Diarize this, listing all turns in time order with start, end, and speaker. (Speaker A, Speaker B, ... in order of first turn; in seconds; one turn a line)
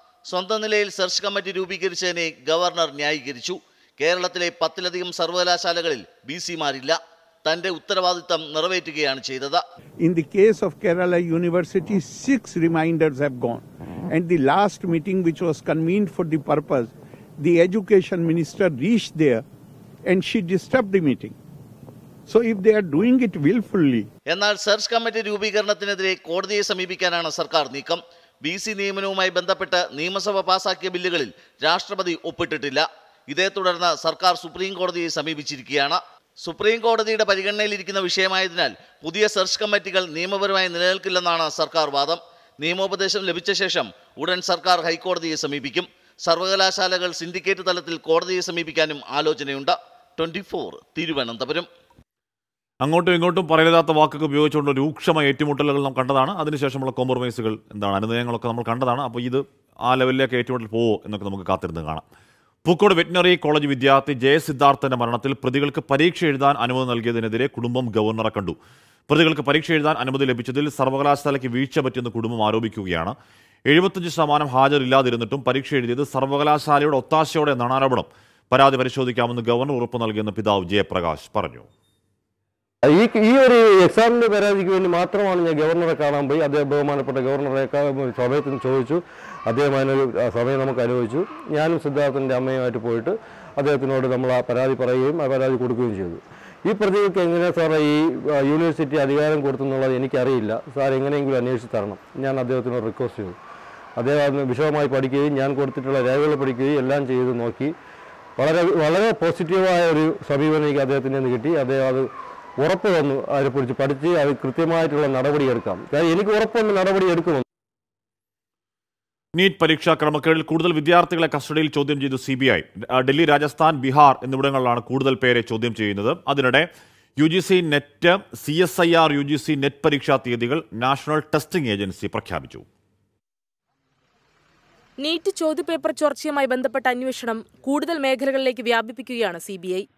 Speaker A: 0.3-9.6
Speaker B: 10.0-19.4
Speaker B: 20.1-21.4
Speaker B: 22.3-24.1
Speaker A: 24.3-51.7
Speaker C: 52.8-62.0
Speaker C: 62.6-68.6
Speaker C: 69.1-73.2
Speaker C: 73.7-81.7
Speaker D: 82.9-103.3
Speaker D: 104.0-107.7
Speaker D: 108.4-112.1
Speaker D: 112.6-117.4
Speaker C: 119.4-126.7
Speaker C: 127.2-132.7
Speaker E: 135.0-139.9